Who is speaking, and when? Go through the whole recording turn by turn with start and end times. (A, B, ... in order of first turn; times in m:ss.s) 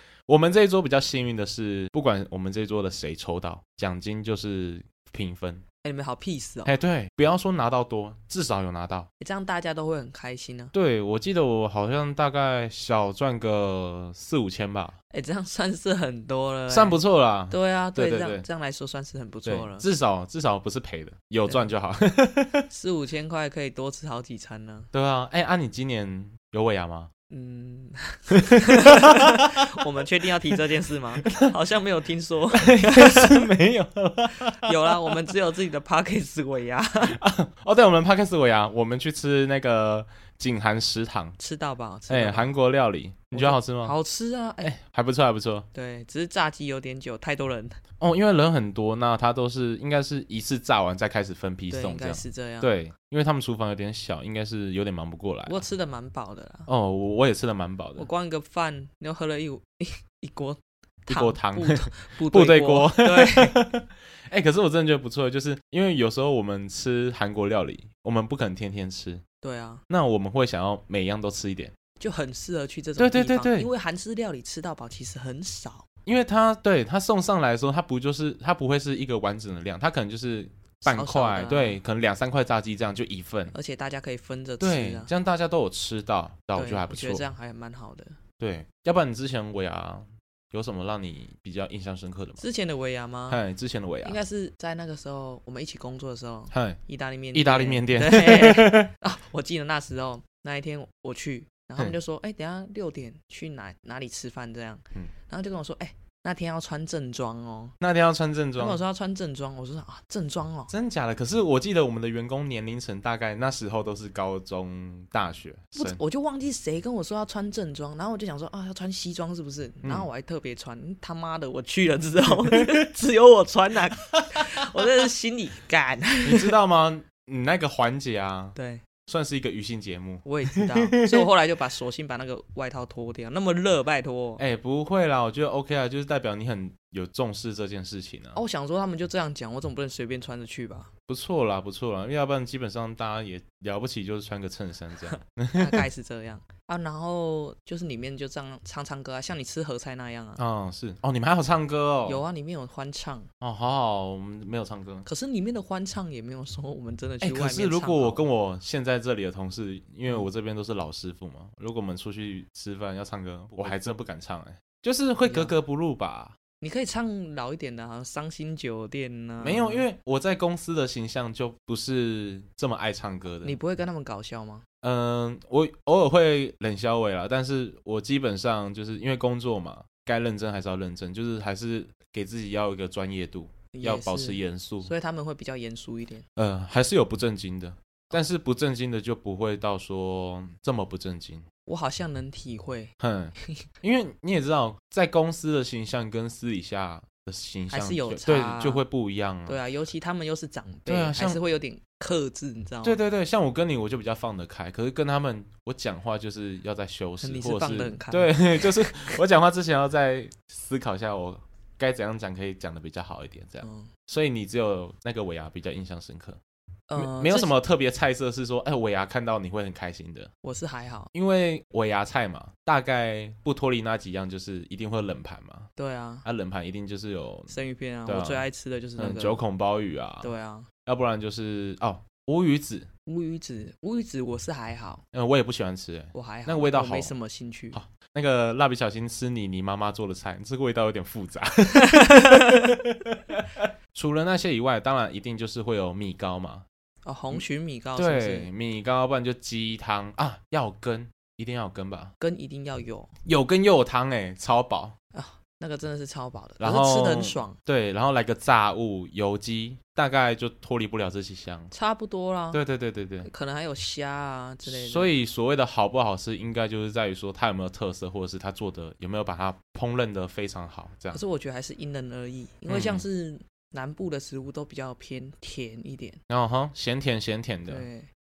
0:00.3-0:05.6 A
0:05.8-0:06.7 B
0:06.6-0:09.1 A
0:09.2-0:10.7 B
0:10.7-0:15.0 A
0:15.1-0:17.0 B
0:16.7-0:18.4 A
0:17.5-0:19.8 B
0:19.4-0:22.6 A
0:22.7-0:24.9 B
0:24.9-0:27.1 A
0:27.3-0:33.5 B
0:28.3-0:29.8 A
0:31.2-0:31.4 A
0:32.5-0:35.2 A
0:34.3-0:37.2 B
0:37.1-0:41.4 A
0:41.4-0:42.5 B
0:42.1-0:43.9 A
0:43.3-0:44.7 B
0:44.6-0:45.7 A
0:45.7-0:47.8 B
0:48.0-0:55.6 A
0:51.7-0:52.7 B
0:55.4-0:56.7 B
0:56.7-0:58.1 A
0:58.0-1:03.7 B
1:01.1-1:09.2 A
1:09.4-1:09.8 B
1:09.9-1:11.7 A
1:12.0-1:15.8 B
1:13.0-1:13.7 A
1:16.0-1:23.5 A
1:20.8-1:21.8 B
1:23.5-1:25.1 B
1:24.6-1:27.2 A
1:26.5-1:28.2 B
1:28.4-1:32.4 A
1:32.4-1:33.4 B
1:33.3-1:34.2 A
1:34.0-1:47.7 B
1:36.5-1:36.8 A
1:37.3-1:38.9 A
1:47.8-1:48.8 A
1:48.6-1:50.7 B
1:50.7-1:56.0 A
1:55.8-2:06.5 B
2:02.5-2:02.7 A
2:06.2-2:11.3 A
2:08.5-2:08.8 B
2:10.2-2:14.4 B
2:14.4-2:18.4 A
2:18.3-2:20.9 B
2:21.1-2:25.8 A
2:25.1-2:30.4 B
2:30.4-2:32.2 A
2:32.0-2:33.3 B
2:33.4-2:35.0 A
2:35.0-2:38.2 B
2:37.2-2:46.4 A
2:45.2-2:45.5 B
2:46.6-2:49.8 B
2:49.4-2:53.6 A
2:53.4-2:54.6 B
2:54.8-3:04.9 A
3:03.7-3:06.2 B
3:06.4-3:11.4 A
3:11.6-3:12.9 B
3:13.0-3:19.6 A
3:17.7-3:18.8 B
3:19.5-3:23.0 B
3:20.9-3:21.4 A
3:22.8-3:36.4 A
3:27.2-3:29.0 B
3:33.6-3:33.9 B
3:36.9-3:37.5 B
3:37.0-3:40.3 A
3:40.4-3:41.1 B
3:41.1-3:45.7 A
3:45.8-3:46.2 B
3:46.2-3:50.3 A
3:47.5-3:49.4 B
3:50.2-3:50.7 B
3:50.8-3:52.9 A
3:53.0-3:55.0 B
3:55.1-3:57.1 A
3:56.1-3:57.8 B
3:57.7-4:06.6 A
4:01.8-4:02.7 B
4:07.0-4:08.5 B
4:08.0-4:12.1 A
4:12.2-4:13.1 B
4:13.2-4:14.9 A
4:15.1-4:17.6 B
4:16.6-4:21.7 A
4:21.7-4:22.6 B
4:22.5-4:23.3 A
4:23.2-4:25.1 B
4:24.6-4:31.2 A
4:31.1-4:36.2 B
4:32.7-4:33.0 A
4:36.3-4:37.8 A
4:37.7-4:38.1 B